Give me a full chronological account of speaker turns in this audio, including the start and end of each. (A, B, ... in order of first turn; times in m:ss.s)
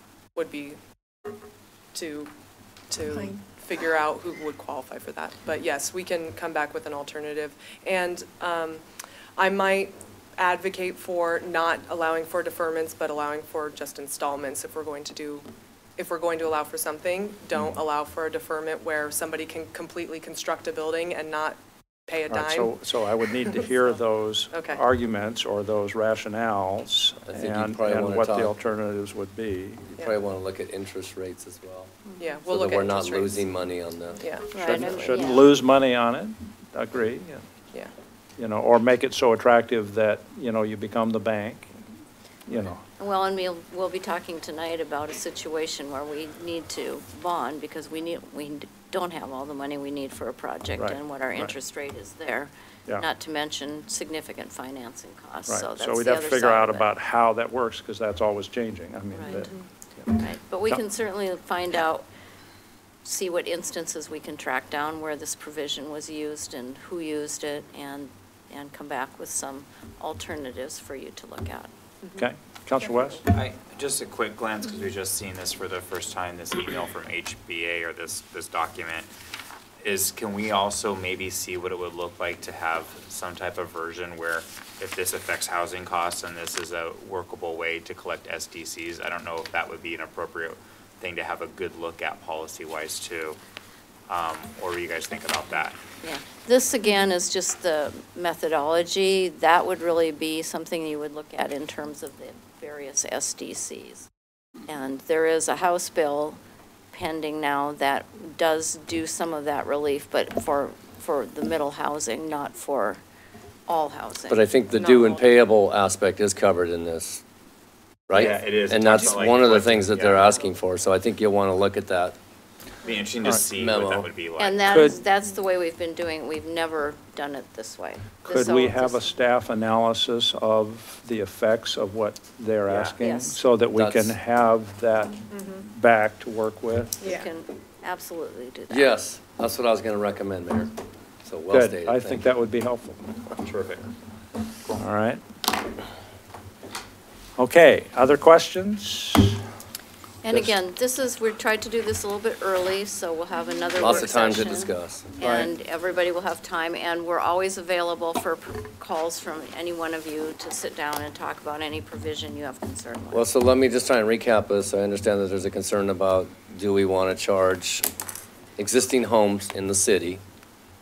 0:00.4-0:01.3 A
0:01.9-0:02.3 A
0:02.9-0:08.8 A
0:09.4-0:23.7 A
0:22.3-0:29.9 B
0:24.5-0:24.8 A
0:27.3-0:28.5 C
0:29.9-0:34.2 C
0:32.2-0:33.4 A
0:34.2-0:35.2 A
0:34.5-0:35.5 D
0:34.6-0:37.5 B
0:38.4-0:41.7 B
0:42.5-0:42.8 B
0:43.0-0:56.9 D
0:50.8-0:51.6 B
0:55.5-1:00.1 B
0:59.1-0:59.6 D
1:00.1-1:02.1 D
1:03.0-1:11.7 D
1:12.2-1:13.2 B
1:12.8-1:13.2 A
1:13.3-1:19.1 E
1:19.8-1:33.4 E
1:34.1-1:35.8 E
1:36.0-1:44.1 D
1:44.7-1:46.4 D
1:46.9-1:53.0 D
1:53.7-1:54.4 D
1:54.3-1:57.2 C
1:54.7-1:55.3 A
1:58.1-2:02.2 C
1:58.1-2:00.4 E
2:02.8-2:04.8 E
2:03.6-2:04.1 C
2:04.4-2:09.1 D
2:04.7-2:05.0 B
2:08.3-2:17.1 B
2:12.7-2:13.0 E
2:13.0-2:13.4 D
2:13.7-2:14.1 C
2:15.3-2:15.6 A
2:17.0-2:17.3 A
2:17.0-2:18.9 D
2:18.7-2:20.7 C
2:21.2-2:22.2 C
2:21.5-2:23.0 B
2:23.4-2:23.9 E
2:24.8-2:25.2 B
2:27.4-2:29.4 B
2:30.2-2:43.3 D
2:30.3-2:30.6 C
2:33.8-2:35.1 C
2:35.2-2:35.5 B
2:43.1-2:47.9 C
2:48.6-2:50.2 C